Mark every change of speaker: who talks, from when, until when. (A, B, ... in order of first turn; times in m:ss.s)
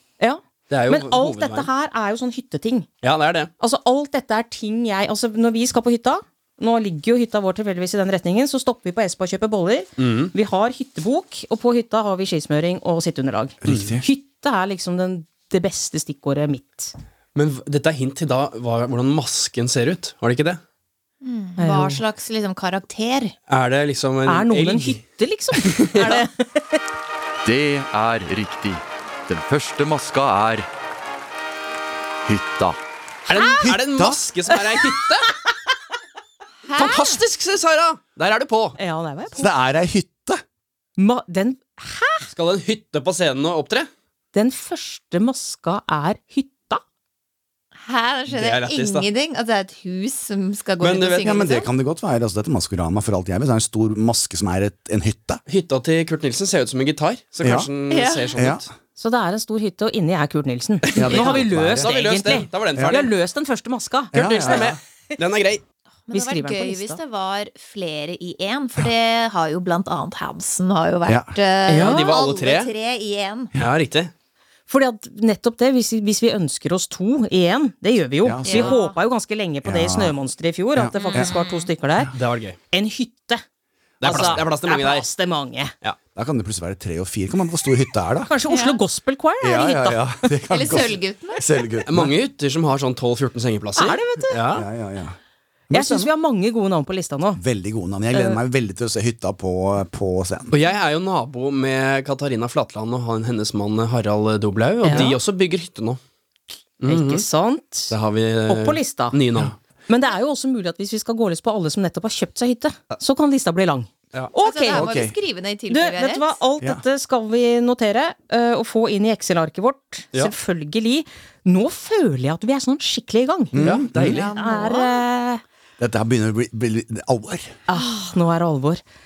0:00.2-0:02.9 A
0:00.7-0:01.7 B
0:03.0-0:03.5 B
0:03.6-0:16.9 A
0:10.0-0:10.3 B
0:13.6-0:14.0 C
0:13.6-0:14.0 B
0:17.3-0:20.6 B
0:21.2-0:23.3 D
0:21.6-0:22.0 A
0:23.5-0:25.0 B
0:24.2-0:26.8 A
0:25.6-0:26.2 B
0:27.4-0:30.7 E
0:32.2-0:32.8 E
0:33.3-0:35.3 B
0:33.6-0:34.2 C
0:36.6-0:37.2 D
0:36.7-0:38.8 B
0:38.8-0:39.5 A
0:39.4-0:40.4 C
0:41.0-0:42.3 A
0:42.3-0:43.9 B
0:44.3-0:46.8 A
0:47.8-0:51.7 D
0:48.3-0:49.1 B
0:50.8-0:51.5 B
0:51.2-0:55.4 C
0:55.5-0:58.7 B
0:57.4-0:57.7 C
0:57.9-0:58.3 D
0:58.4-0:58.6 C
0:59.0-1:04.1 A
1:00.9-1:03.1 B
1:00.9-1:01.9 C
1:04.1-1:05.6 B
1:04.1-1:04.8 C
1:06.1-1:13.5 D
1:06.1-1:07.0 A
1:11.1-1:11.3 C
1:11.7-1:12.7 B
1:13.6-1:14.1 B
1:14.7-1:22.1 A
1:18.2-1:18.8 C
1:18.4-1:19.0 D
1:19.6-1:20.2 C
1:20.7-1:21.4 C
1:20.9-1:21.7 D
1:22.1-1:22.6 B
1:22.7-1:23.4 A
1:24.0-1:25.0 B
1:24.0-1:25.7 A
1:24.1-1:24.4 C
1:26.1-1:28.3 C
1:28.3-1:30.3 A
1:28.5-1:28.8 D
1:29.4-1:32.1 C
1:30.5-1:31.8 D
1:31.9-1:34.7 B
1:33.8-1:34.4 A
1:34.5-1:35.2 C
1:35.7-1:36.1 C
1:35.7-1:37.4 A
1:37.4-1:40.5 C
1:38.1-1:38.4 A
1:40.5-1:46.0 B
1:44.8-1:45.2 A
1:46.8-1:47.2 B
1:46.9-1:47.9 A
1:47.9-1:49.5 B
1:48.5-1:49.1 A
1:49.9-1:54.8 A
1:54.4-1:56.4 D
1:54.7-1:55.2 C
1:55.7-2:03.5 A
2:03.5-2:04.2 C
2:03.6-2:04.3 B
2:04.0-2:05.0 D
2:04.2-2:05.4 A
2:05.8-2:07.6 C
2:07.7-2:08.8 A